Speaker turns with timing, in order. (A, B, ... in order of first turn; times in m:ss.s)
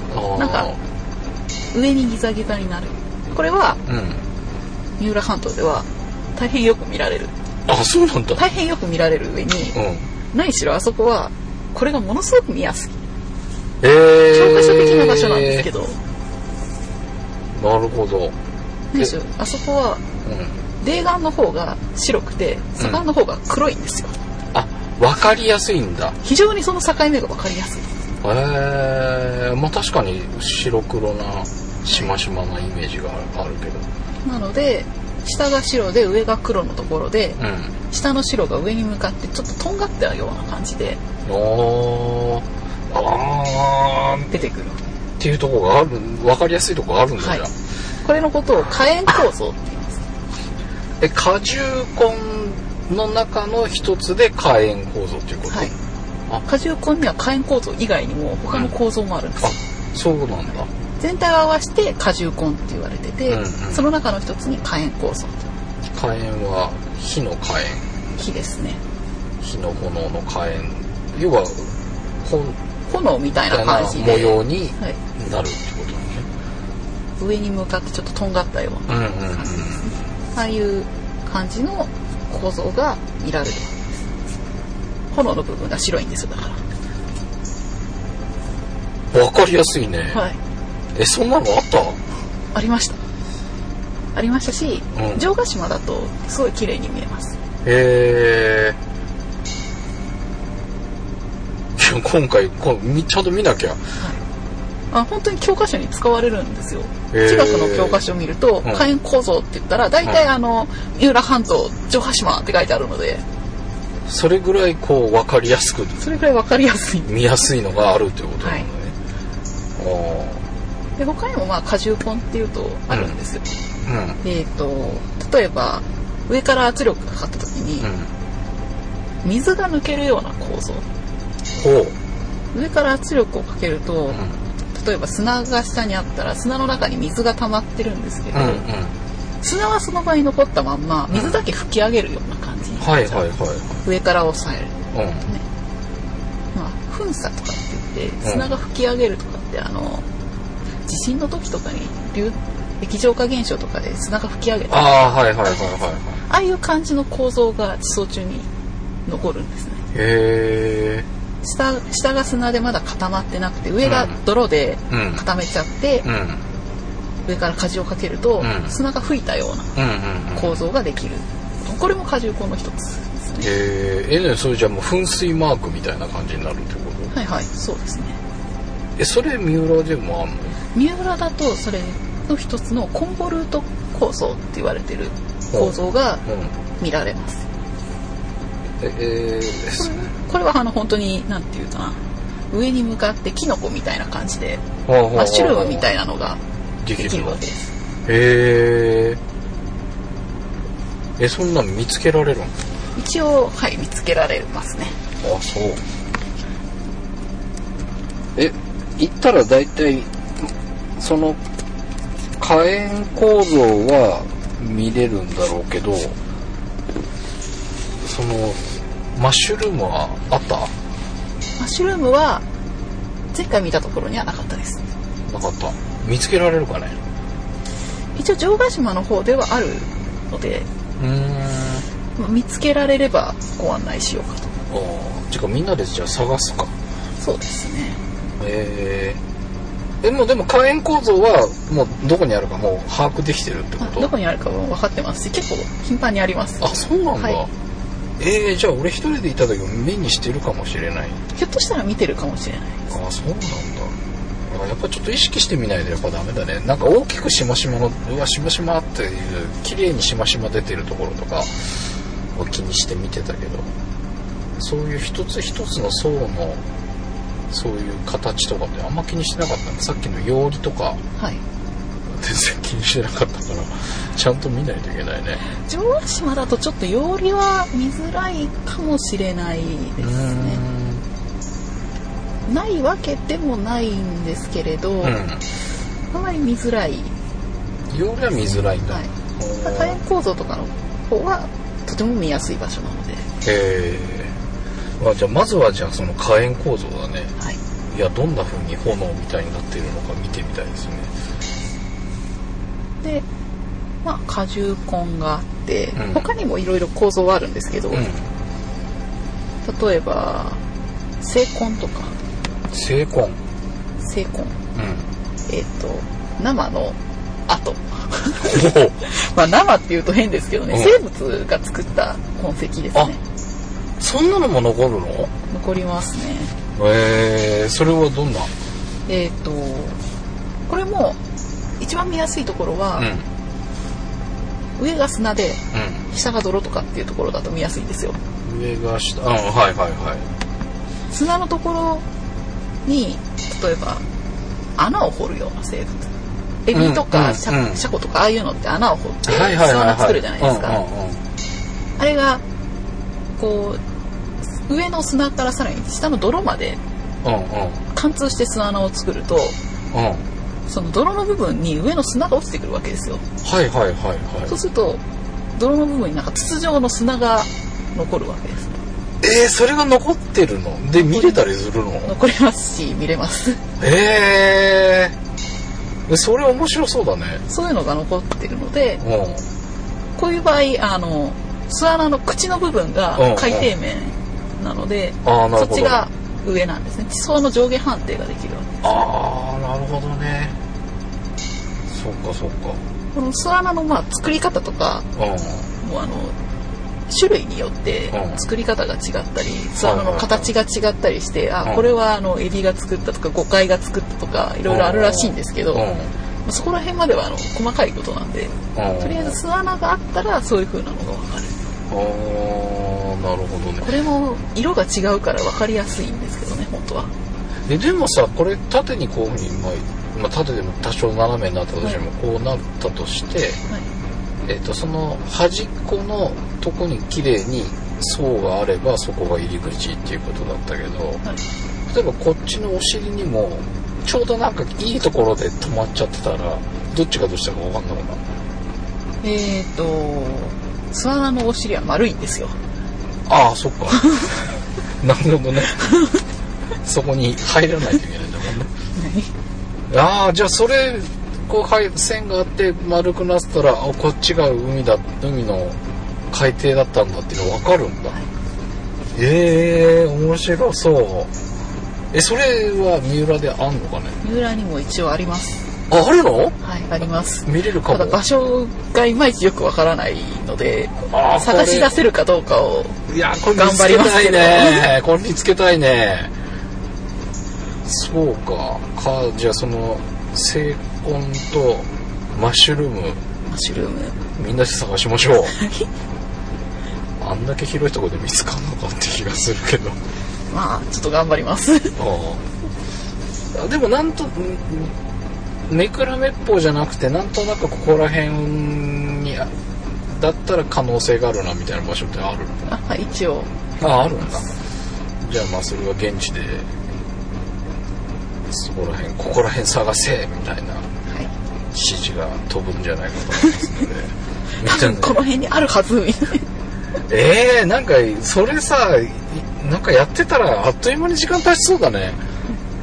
0:00.1-0:00.8 A
0:00.4-0:00.7 B
0:01.7-0:03.8 B
0:03.8-0:04.2 A
0:05.0-0:07.3 B
0:07.7-0:08.4 A
0:08.4-0:09.8 B
0:09.7-0:10.0 A
0:10.3-0:13.0 B
0:13.8-0:15.7 A
0:14.3-0:16.0 B
0:17.5-0:18.3 A
0:18.9-0:20.0 B
0:20.2-0:20.5 A
0:20.8-0:24.2 B
0:24.5-0:26.2 A
0:26.2-0:27.9 B
0:28.2-0:33.8 A
0:34.2-0:41.0 B
0:37.4-0:37.7 A
0:41.2-0:44.4 A
0:44.3-0:44.8 B
0:45.2-0:47.5 A
0:48.0-0:50.0 B
0:51.0-0:55.7 A
0:56.4-0:59.6 B
0:59.4-1:00.7 A
1:01.0-1:05.5 B
1:03.3-1:03.9 A
1:05.9-1:07.8 A
1:08.2-1:08.8 B
1:09.4-1:11.7 A
1:12.2-1:12.5 A
1:12.9-1:15.0 B
1:13.5-1:16.2 A
1:17.2-1:23.8 B
1:18.9-1:19.9 A
1:25.1-1:26.6 B
1:29.1-1:30.2 A
1:30.1-1:30.4 B
1:30.9-1:32.0 A
1:32.5-1:33.0 B
1:34.1-1:37.3 B
1:34.9-1:35.2 A
1:37.6-1:38.8 A
1:41.8-1:43.8 A
1:44.9-1:53.2 B
1:47.1-1:48.0 A
1:54.1-1:56.0 A
1:56.0-1:57.1 B
1:57.0-1:58.9 A
1:59.8-2:00.4 A
2:01.0-2:03.4 B
2:03.8-2:04.2 A
2:04.2-2:07.9 B
2:07.8-2:08.1 A
2:09.2-2:10.8 B
2:11.6-2:11.9 A
2:12.5-2:14.2 B
2:14.7-2:18.6 B
2:18.3-2:18.9 A
2:19.4-2:23.2 B
2:21.1-2:21.4 A
2:22.8-2:23.8 A
2:23.8-2:25.4 B
2:24.9-2:25.2 A
2:26.5-2:30.0 B
2:28.2-2:28.5 A
2:30.9-2:38.5 B
2:34.7-2:36.2 A
2:39.0-2:39.8 B
2:39.9-2:41.0 A
2:41.4-2:46.0 B
2:43.8-2:44.1 A
2:44.9-2:45.2 A
2:46.0-2:46.4 A
2:47.2-2:49.7 B
2:48.4-2:48.7 A
2:49.8-2:50.6 A
2:50.3-2:53.5 B
2:53.4-2:57.1 A
2:57.1-2:58.2 B
2:59.0-3:00.5 A
3:00.7-3:06.2 B
3:05.5-3:06.5 A
3:06.8-3:07.4 B
3:08.8-3:10.0 A
3:09.8-3:12.0 B
3:12.5-3:14.6 B
3:14.8-3:15.8 A
3:15.1-3:16.4 B
3:16.8-3:17.4 A
3:17.0-3:17.7 B
3:18.0-3:19.2 A
3:21.2-3:22.5 A
3:23.0-3:25.0 B
3:25.2-3:25.8 A
3:28.4-3:31.4 A
3:32.4-3:36.1 A
3:38.0-3:38.6 A
3:39.2-3:40.7 A
3:41.6-3:42.4 B
3:43.3-3:44.8 B
3:45.3-3:47.0 A
3:48.2-3:50.7 B
3:51.0-3:51.8 A
3:52.2-3:54.5 B
3:54.7-3:56.7 A
3:57.2-3:58.0 B
3:58.4-3:59.2 A
4:00.0-4:04.1 A
4:03.8-4:07.4 B
4:06.6-4:07.5 A
4:08.2-4:11.2 A
4:11.3-4:12.8 B
4:12.9-4:13.9 A
4:14.5-4:21.7 A
4:22.3-4:23.6 A
4:24.6-4:26.6 A
4:27.5-4:31.0 A
4:32.1-4:35.4 A
4:35.6-4:40.6 B
4:40.0-4:41.0 A
4:42.4-4:45.2 B
4:45.0-4:45.4 A
4:46.1-4:47.1 B
4:47.9-4:50.0 A
4:48.3-4:49.1 B
4:49.6-4:53.2 B
4:53.4-4:54.3 A
4:55.0-4:57.3 A
4:57.9-5:01.1 A
5:04.0-5:08.0 B
5:06.0-5:06.3 A
5:07.9-5:08.2 A
5:09.6-5:10.6 B
5:11.2-5:12.1 B
5:12.7-5:13.4 A
5:14.0-5:14.5 B
5:14.8-5:15.0 A
5:15.5-5:17.0 B
5:17.5-5:23.2 B
5:18.4-5:19.0 A
5:20.7-5:21.0 A
5:24.0-5:25.3 A
5:25.5-5:26.5 B
5:26.8-5:28.5 A
5:29.1-5:30.0 B
5:30.7-5:31.2 B
5:31.8-5:33.1 B
5:33.0-5:33.2 A
5:34.8-5:35.6 B
5:35.7-5:36.0 A
5:36.1-5:38.2 B
5:38.4-5:40.2 A
5:41.1-5:42.0 B
5:42.8-5:44.0 B
5:44.8-5:46.1 B
5:46.6-5:50.8 B
5:46.7-5:47.8 A
5:49.2-5:51.2 A
5:52.0-5:52.4 B
5:53.3-5:53.8 B
5:54.7-5:56.8 B
5:57.2-5:57.8 A
5:57.9-5:59.5 B
5:59.9-6:00.2 A
6:00.7-6:03.2 B
6:03.4-6:04.5 A
6:04.5-6:05.0 B
6:05.5-6:08.7 B
6:09.2-6:12.1 A
6:11.0-6:11.4 B
6:12.0-6:13.6 B
6:13.8-6:15.1 A
6:16.1-6:17.4 A
6:17.5-6:19.0 B
6:19.0-6:19.4 A
6:20.2-6:28.9 B
6:23.2-6:23.7 A
6:25.2-6:26.0 A
6:28.8-6:30.5 A
6:31.9-6:32.8 A
6:33.1-6:35.0 B
6:35.2-6:35.7 A
6:35.8-6:36.3 B
6:37.1-6:45.8 B
6:38.1-6:38.4 A
6:39.8-6:40.5 A
6:44.7-6:46.1 A
6:46.4-6:51.6 B
6:48.7-6:49.4 A
6:51.9-6:53.9 A
6:53.8-6:57.1 B
6:57.7-7:03.6 A
7:04.4-7:11.2 A
7:11.9-7:18.2 A
7:19.2-7:22.5 B
7:23.3-7:24.2 A
7:25.0-7:25.8 A
7:26.8-7:28.7 A
7:29.0-7:29.3 B
7:29.9-7:35.8 A
7:36.3-7:38.2 A
7:39.1-7:41.3 A
7:42.1-7:44.2 A
7:44.2-7:45.6 B
7:45.9-7:46.6 A
7:46.6-7:53.0 B
7:47.4-7:48.2 A
7:51.1-7:51.9 A
7:53.1-7:56.3 A
7:53.6-7:54.9 B
7:57.8-8:03.2 A
8:03.5-8:04.2 B
8:04.4-8:05.6 A
8:05.6-8:05.8 B
8:07.2-8:10.0 A
8:10.5-8:12.0 B
8:12.0-8:12.4 A
8:13.5-8:14.9 A
8:15.7-8:19.5 A
8:20.1-8:22.6 A
8:22.7-8:23.5 B
8:23.8-8:24.4 A
8:25.2-8:26.6 A
8:28.5-8:30.8 A
8:31.7-8:35.2 A
8:34.6-8:36.4 B
8:37.1-8:42.2 A